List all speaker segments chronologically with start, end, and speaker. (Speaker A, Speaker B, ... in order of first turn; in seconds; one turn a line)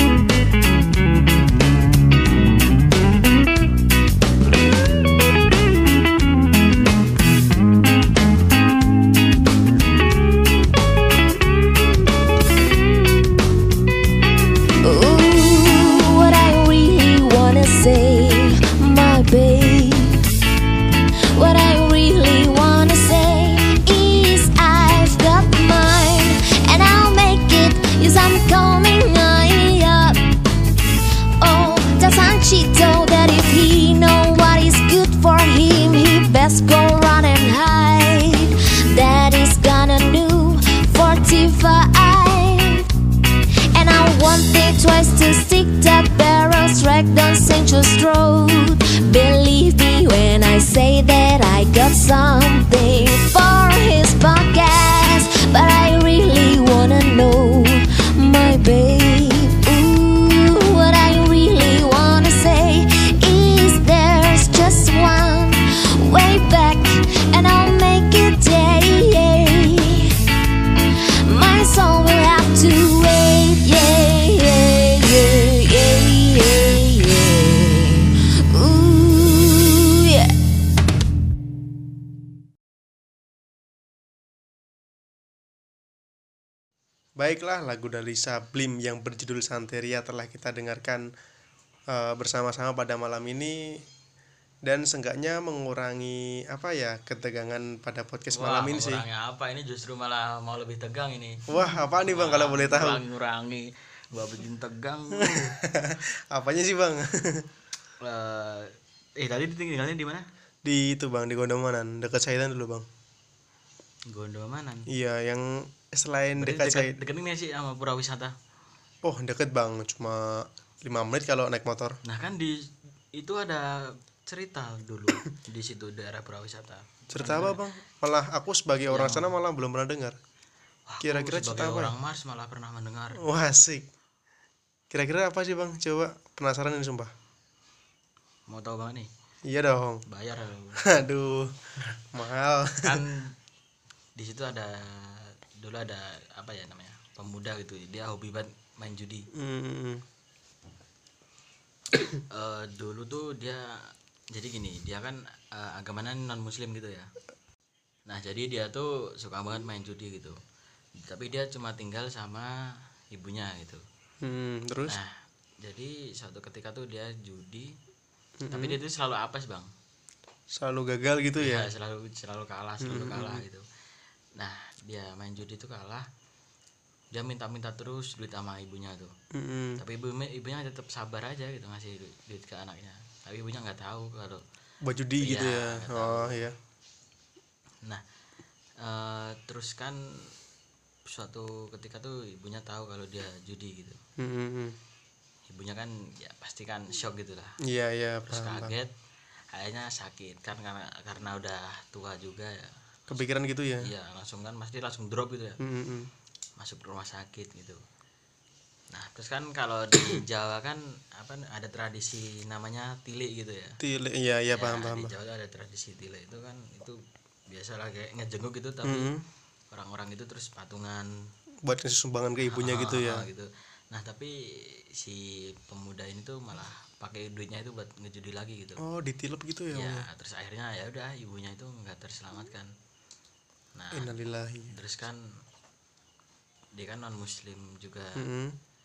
Speaker A: 14.8-20.2
Speaker A: 21.3-30.2
Speaker A: 31.4-42.9
Speaker A: 43.7-70.1
Speaker A: 71.2-80.3
Speaker B: 87.2-91.1
Speaker B: 91.9-93.8
Speaker B: 94.7-99.0
Speaker C: 98.3-101.4
Speaker B: 101.5-103.0
Speaker C: 102.0-105.5
Speaker B: 105.2-107.5
Speaker C: 108.0-110.3
Speaker B: 110.6-112.8
Speaker C: 114.1-114.9
Speaker B: 114.9-117.0
Speaker C: 116.4-118.3
Speaker B: 119.0-122.0
Speaker C: 122.0-127.6
Speaker B: 127.1-130.2
Speaker C: 128.9-129.3
Speaker C: 130.9-133.2
Speaker B: 131.0-131.9
Speaker B: 133.2-133.9
Speaker B: 134.9-137.1
Speaker C: 138.5-139.1
Speaker B: 139.4-140.0
Speaker C: 140.1-141.0
Speaker B: 140.8-143.0
Speaker C: 142.8-143.3
Speaker C: 144.2-149.3
Speaker B: 149.3-150.0
Speaker C: 152.3-157.1
Speaker C: 158.1-160.4
Speaker C: 161.0-162.5
Speaker C: 163.1-163.8
Speaker B: 164.2-165.0
Speaker C: 164.9-167.7
Speaker B: 168.4-168.8
Speaker C: 168.5-169.7
Speaker B: 170.5-171.7
Speaker C: 171.4-173.6
Speaker B: 172.8-173.4
Speaker C: 174.3-176.1
Speaker C: 177.1-179.1
Speaker B: 179.3-179.8
Speaker C: 179.8-184.4
Speaker B: 184.8-186.6
Speaker C: 185.2-186.4
Speaker C: 188.8-190.3
Speaker C: 191.1-194.0
Speaker B: 194.2-194.8
Speaker C: 195.5-197.6
Speaker B: 197.6-198.7
Speaker C: 198.3-198.9
Speaker C: 199.5-203.2
Speaker B: 203.1-203.9
Speaker C: 203.8-205.6
Speaker B: 205.6-206.1
Speaker C: 206.6-207.8
Speaker C: 208.9-213.8
Speaker B: 213.8-215.1
Speaker C: 214.5-219.1
Speaker B: 218.8-219.2
Speaker C: 219.7-221.1
Speaker B: 221.6-223.3
Speaker C: 222.5-228.8
Speaker B: 228.8-230.1
Speaker C: 229.7-232.7
Speaker C: 233.7-235.2
Speaker B: 233.9-234.7
Speaker C: 236.7-238.2
Speaker B: 238.2-238.6